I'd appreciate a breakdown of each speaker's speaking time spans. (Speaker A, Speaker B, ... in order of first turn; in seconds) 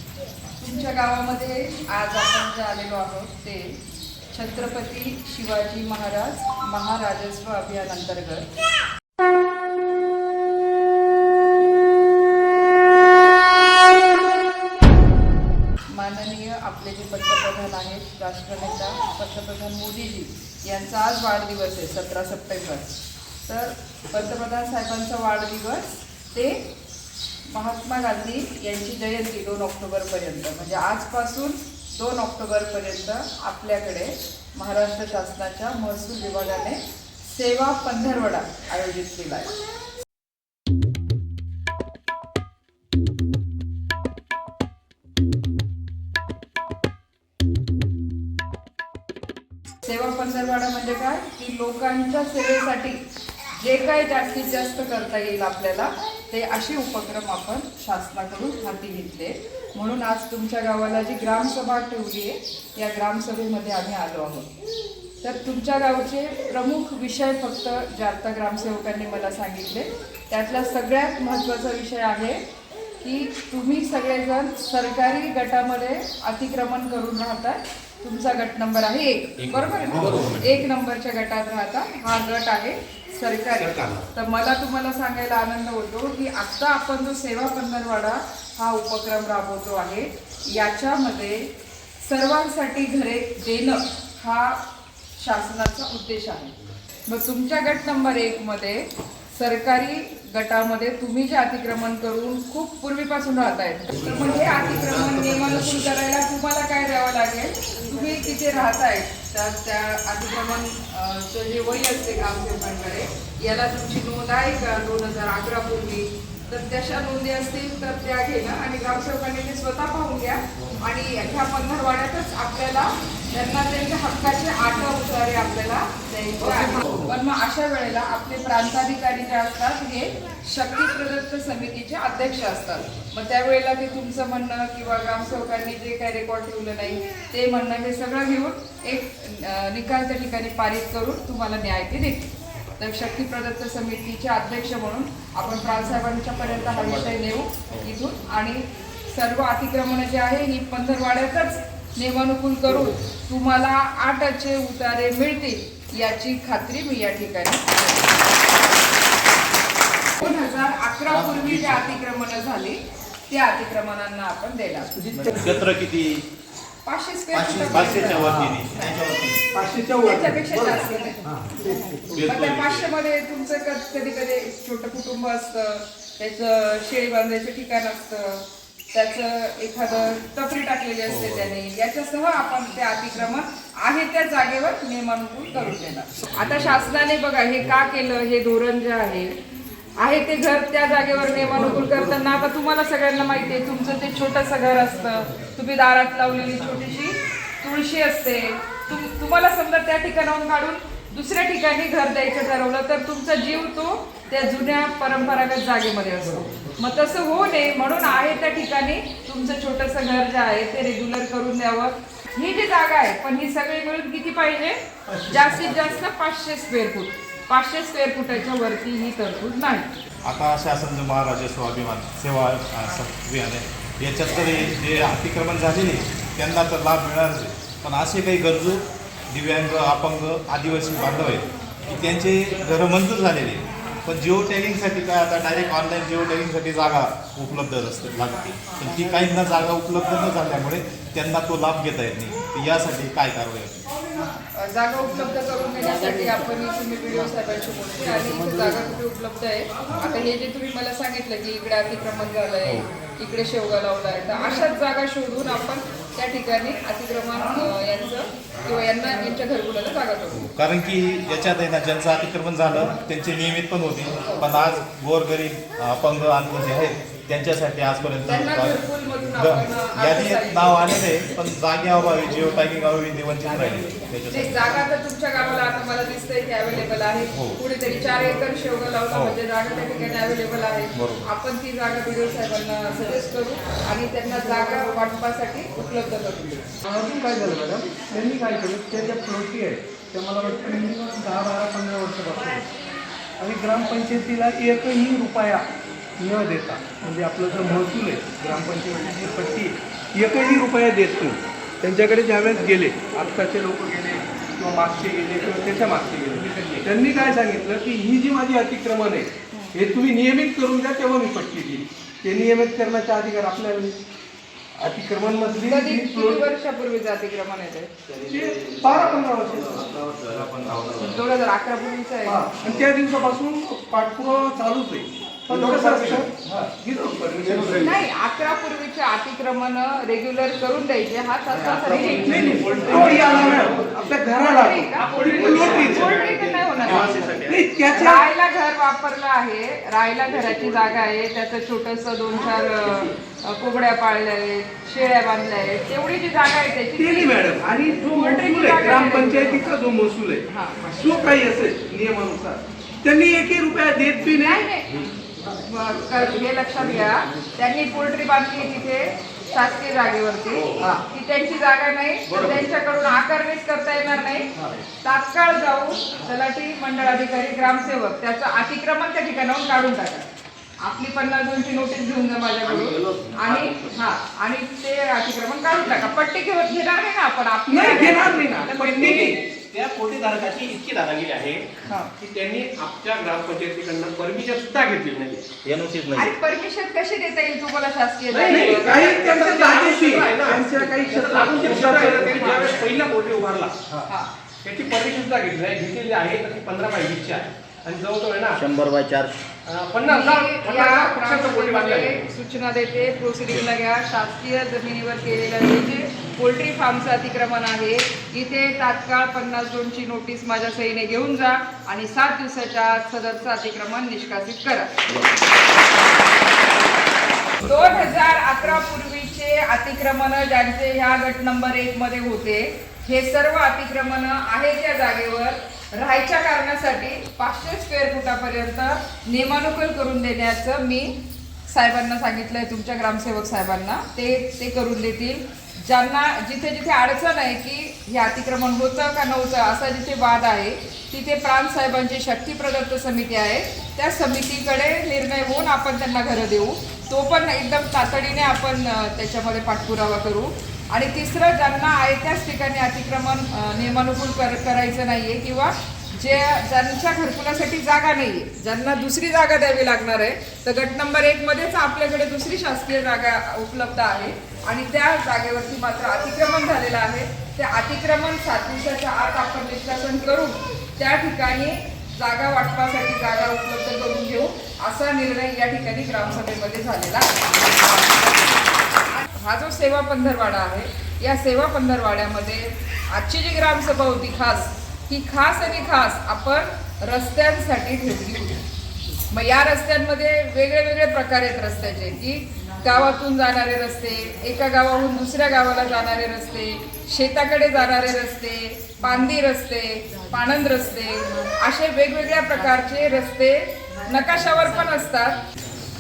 Speaker A: 0.6-3.8, 4.3-8.5, 15.9-22.9, 23.4-26.6, 27.5-39.5, 49.8-53.0, 53.6-64.5, 65.2-72.4, 73.0-91.4, 92.0-94.6, 95.2-96.5, 97.1-158.3, 160.2-164.9, 166.8-168.9, 170.0-171.2, 172.2-189.3, 190.0-219.9, 244.2-260.5, 268.3-270.9, 274.3-286.6, 315.6-317.9, 321.0-322.5, 327.8-332.5, 334.4-337.1, 337.9-349.8, 350.5-350.8, 354.3-364.5, 365.0-370.3, 370.8-378.4, 386.1-389.4, 391.3-392.9, 400.0-414.9, 417.6-431.1, 431.7-488.6, 489.3-505.4
Speaker B: 79.9-80.4, 83.6-84.1, 306.3-307.1, 331.7-334.0, 334.9-336.3, 336.9-337.4, 360.6-360.9, 373.3-373.8, 377.8-385.5, 388.3-393.8, 394.6-398.6, 399.7-402.3
Speaker C: 80.0-80.4, 161.1-161.9, 165.2-166.2, 167.3-169.4, 172.2-172.8, 181.1-181.5, 220.2-243.9, 260.4-268.8, 269.3-274.6, 277.3-277.6, 279.1-279.4, 280.9-281.3, 318.1-321.2, 335.2-337.6, 385.6-386.3
Speaker D: 165.0-165.5, 168.2-168.5, 169.5-170.8, 286.9-292.6, 293.4-295.7, 296.2-314.0, 314.8-316.4, 318.3-320.0, 322.3-328.0, 331.7-336.1, 337.4-338.3, 347.0-354.7, 377.7-379.4, 388.5-392.4
Speaker E: 167.5-168.7, 398.6-399.3